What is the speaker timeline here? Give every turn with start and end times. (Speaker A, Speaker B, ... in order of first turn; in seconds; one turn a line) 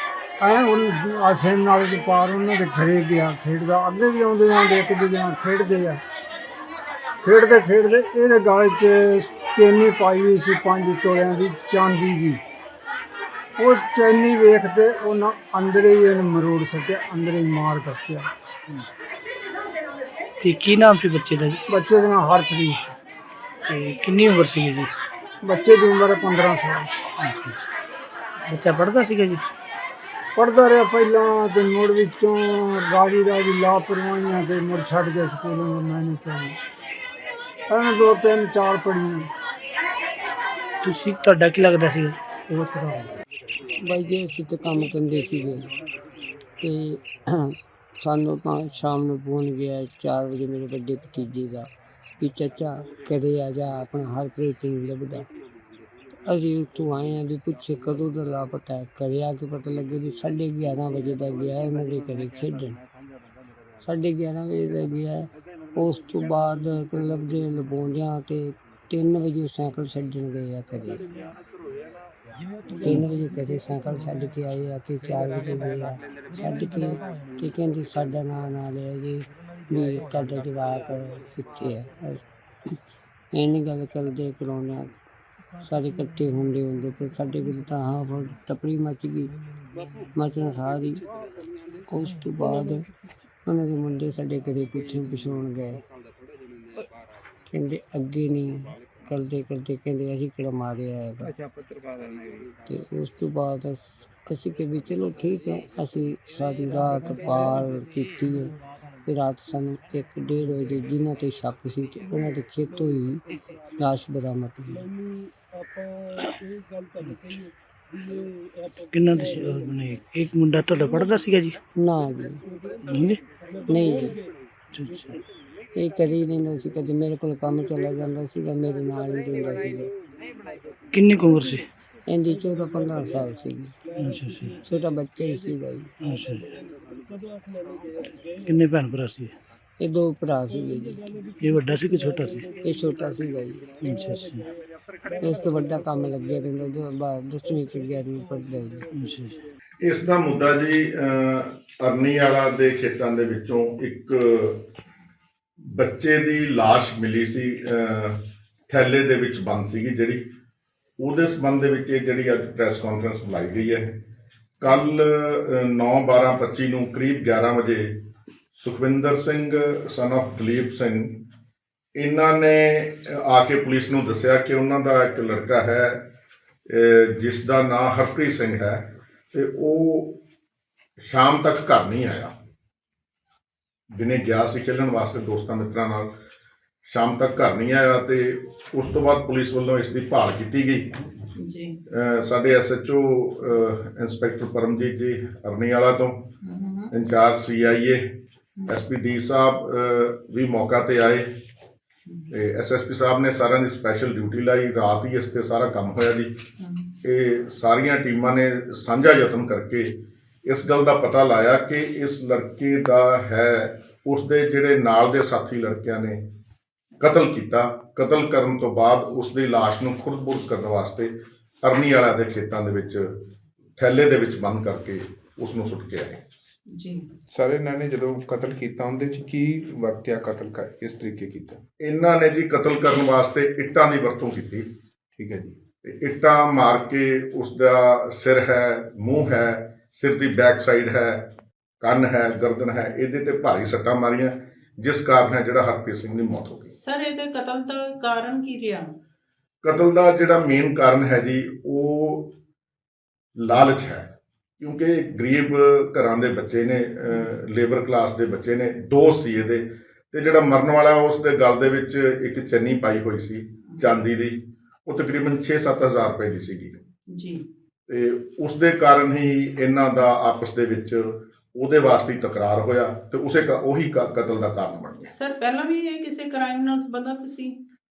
Speaker A: 0.4-6.0
Speaker A: 7.2-12.4
Speaker A: 13.6-18.3
Speaker B: 20.4-21.6
Speaker A: 21.7-22.9
Speaker B: 23.7-24.9
Speaker A: 25.4-26.9
Speaker B: 27.2-27.6
Speaker B: 28.5-29.4
Speaker A: 30.4-36.6
Speaker A: 37.7-39.3
Speaker B: 40.8-42.2
Speaker A: 42.5-43.0
Speaker C: 43.8-45.7
Speaker C: 46.6-55.3
Speaker C: 56.2-62.8
Speaker C: 63.8-71.0
Speaker C: 72.7-82.2
Speaker C: 83.3-84.9
Speaker C: 85.6-89.3
Speaker C: 90.2-91.0
Speaker C: 91.9-92.9
Speaker C: 93.5-95.8
Speaker C: 97.5-101.3
Speaker C: 102.7-113.2
Speaker C: 113.8-114.8
Speaker B: 117.0-117.4
Speaker B: 118.9-121.6
Speaker C: 121.8-122.4
Speaker B: 122.8-123.2
Speaker C: 123.7-124.2
Speaker B: 124.7-125.2
Speaker C: 125.7-129.9
Speaker B: 130.9-131.7
Speaker C: 132.1-133.7
Speaker B: 134.0-134.6
Speaker C: 134.6-135.9
Speaker B: 136.0-136.5
Speaker B: 138.4-139.3
Speaker C: 139.8-141.0
Speaker B: 141.4-142.5
Speaker C: 142.6-143.7
Speaker B: 143.8-144.5
Speaker C: 145.2-148.8
Speaker B: 148.9-149.4
Speaker D: 149.8-154.6
Speaker D: 155.7-160.2
Speaker D: 161.0-164.0
Speaker D: 164.6-168.0
Speaker D: 168.5-171.2
Speaker D: 172.0-176.1
Speaker D: 176.7-180.2
Speaker D: 181.0-182.3
Speaker D: 183.9-186.1
Speaker D: 186.9-191.0
Speaker E: 191.4-191.8
Speaker D: 191.9-196.3
Speaker E: 196.4-196.9
Speaker D: 196.9-198.1
Speaker D: 198.7-201.3
Speaker D: 202.3-206.3
Speaker E: 206.6-206.9
Speaker D: 207.0-216.2
Speaker D: 217.0-223.2
Speaker D: 223.8-226.2
Speaker E: 226.7-227.0
Speaker F: 227.3-231.6
Speaker D: 231.8-234.7
Speaker F: 235.2-235.6
Speaker D: 235.8-241.2
Speaker D: 241.8-246.7
Speaker E: 246.8-248.9
Speaker D: 249.6-252.3
Speaker D: 253.4-254.1
Speaker D: 254.6-266.8
Speaker E: 267.1-267.4
Speaker D: 267.9-275.1
Speaker E: 275.1-277.6